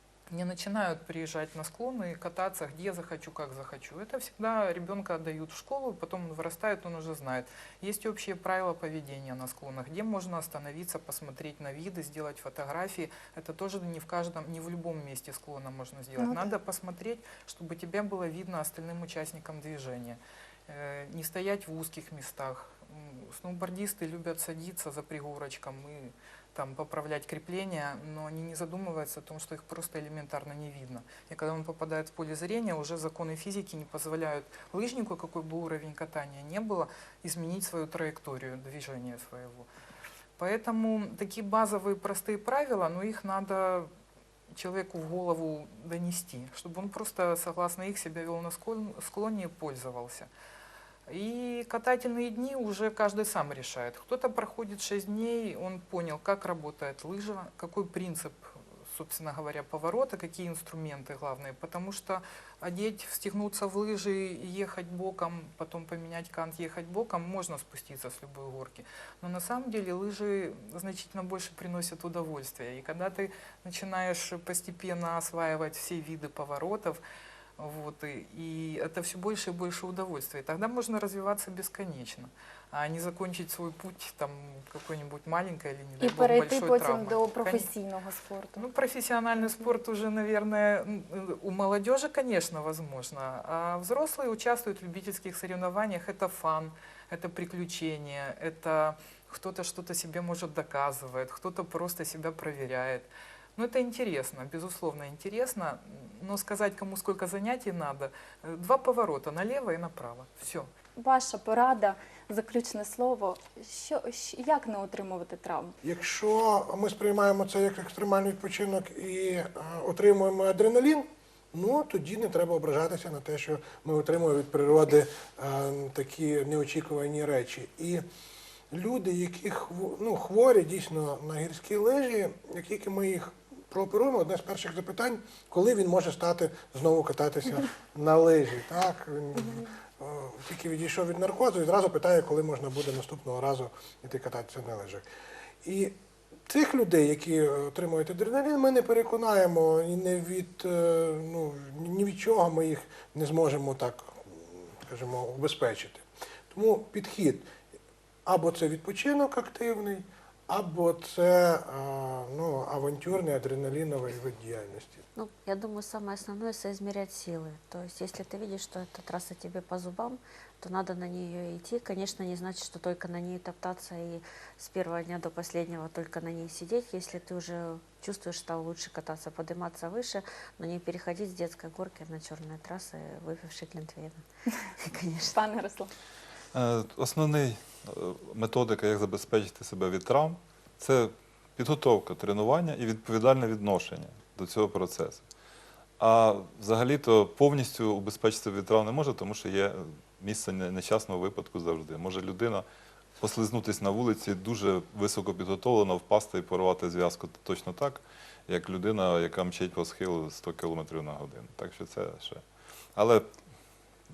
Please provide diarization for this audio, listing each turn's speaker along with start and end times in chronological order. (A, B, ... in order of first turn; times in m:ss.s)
0:00.3-0:39.7 A
0:16.2-0:16.5 B
0:40.4-0:43.9 A
0:44.5-0:50.3 A
0:51.1-1:17.0 A
1:17.6-1:27.7 A
1:26.0-1:28.6 B
1:28.6-1:50.7 A
1:51.0-1:55.8 B
1:55.8-2:08.0 C
2:08.7-2:25.0 C
2:25.6-2:26.0 C
2:26.5-2:37.5 C
2:38.2-2:45.0 C
2:45.2-3:04.2 D
3:04.8-3:05.4 D
3:05.3-3:05.9 B
3:06.5-3:15.2 E
3:16.0-3:22.6 E
3:23.2-3:32.4 E
3:33.0-3:33.3 E